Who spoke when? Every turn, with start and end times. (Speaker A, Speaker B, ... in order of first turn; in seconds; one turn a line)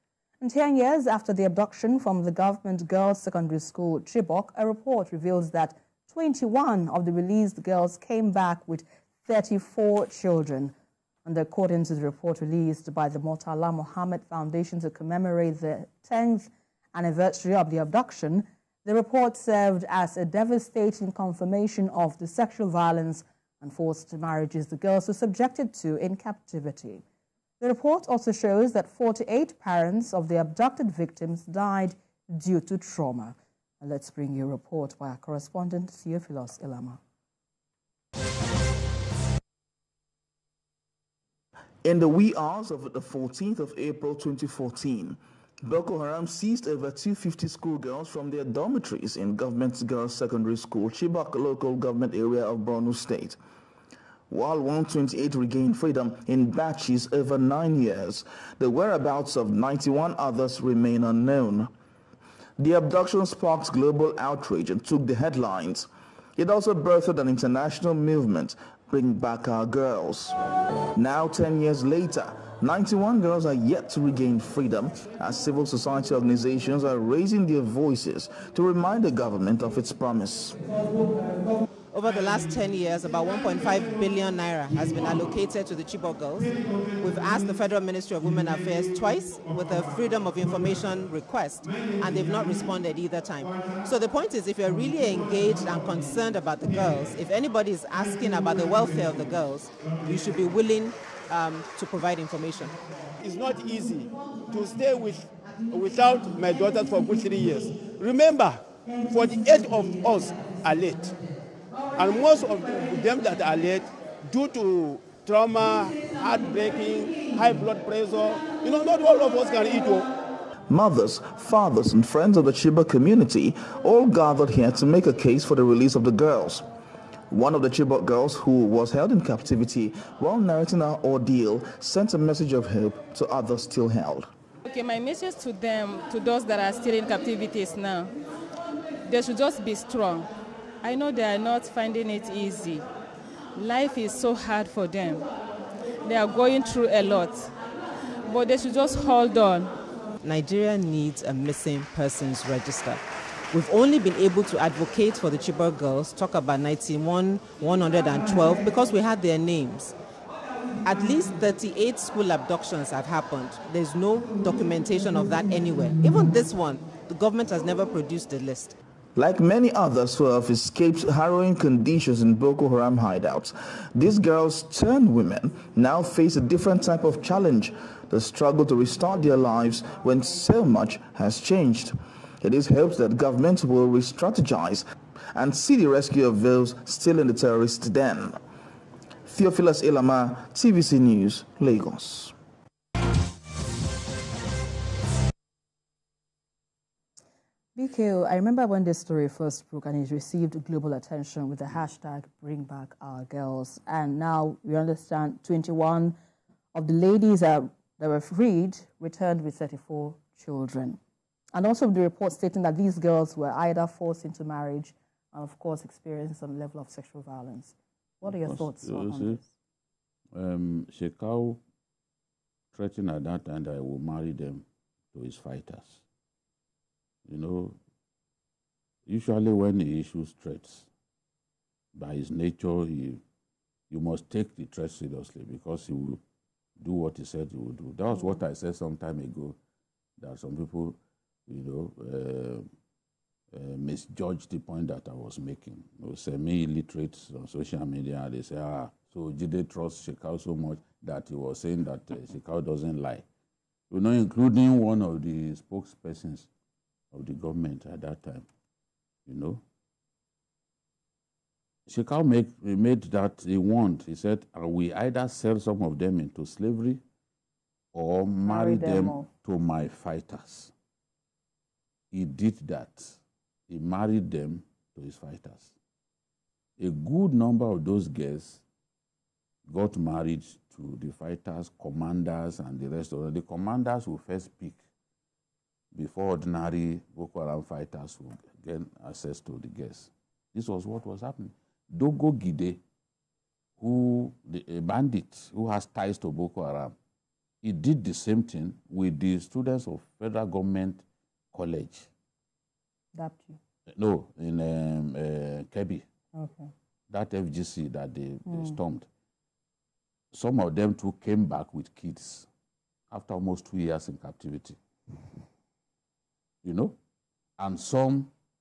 Speaker A: 0.4-10.7
Speaker A: 11.2-27.0
Speaker A: 27.6-37.0
Speaker B: 41.8-53.4
Speaker B: 54.3-61.7
Speaker B: 62.6-70.3
Speaker B: 70.9-80.6
Speaker C: 81.9-102.8
Speaker D: 103.2-111.2
Speaker D: 112.0-120.1
Speaker B: 120.7-126.7
Speaker B: 127.3-134.3
Speaker E: 134.6-138.1
Speaker E: 139.1-140.3
Speaker E: 140.8-142.8
Speaker E: 143.5-145.2
Speaker E: 146.0-147.5
Speaker E: 148.2-149.7
Speaker C: 150.2-159.9
Speaker C: 160.8-168.8
Speaker B: 169.1-188.4
Speaker B: 189.2-192.3
Speaker A: 197.8-206.2
Speaker A: 206.7-211.0
Speaker A: 211.5-219.5
Speaker F: 218.2-219.4
Speaker F: 220.3-221.6
Speaker F: 222.7-226.0
Speaker F: 227.2-227.8
Speaker F: 229.1-230.9
Speaker F: 231.9-233.2
Speaker F: 233.9-236.2
Speaker F: 236.8-239.6
Speaker F: 240.2-242.7
Speaker F: 243.5-253.2
Speaker F: 253.9-256.5
Speaker F: 257.1-258.5
Speaker F: 259.3-259.6
Speaker F: 261.9-267.0
Speaker F: 267.9-270.7
Speaker A: 268.4-269.3
Speaker F: 272.1-273.2
Speaker F: 273.7-275.7
Speaker F: 276.8-278.6
Speaker F: 279.7-284.8
Speaker F: 285.9-292.8
Speaker F: 293.8-296.9
Speaker F: 297.6-301.0
Speaker F: 301.5-302.1
Speaker A: 303.1-303.6
Speaker F: 303.9-306.0
Speaker A: 306.3-306.7
Speaker F: 307.1-309.1
Speaker A: 308.4-308.8
Speaker F: 310.3-312.5
Speaker F: 313.1-314.8
Speaker F: 316.6-316.9
Speaker F: 317.6-318.3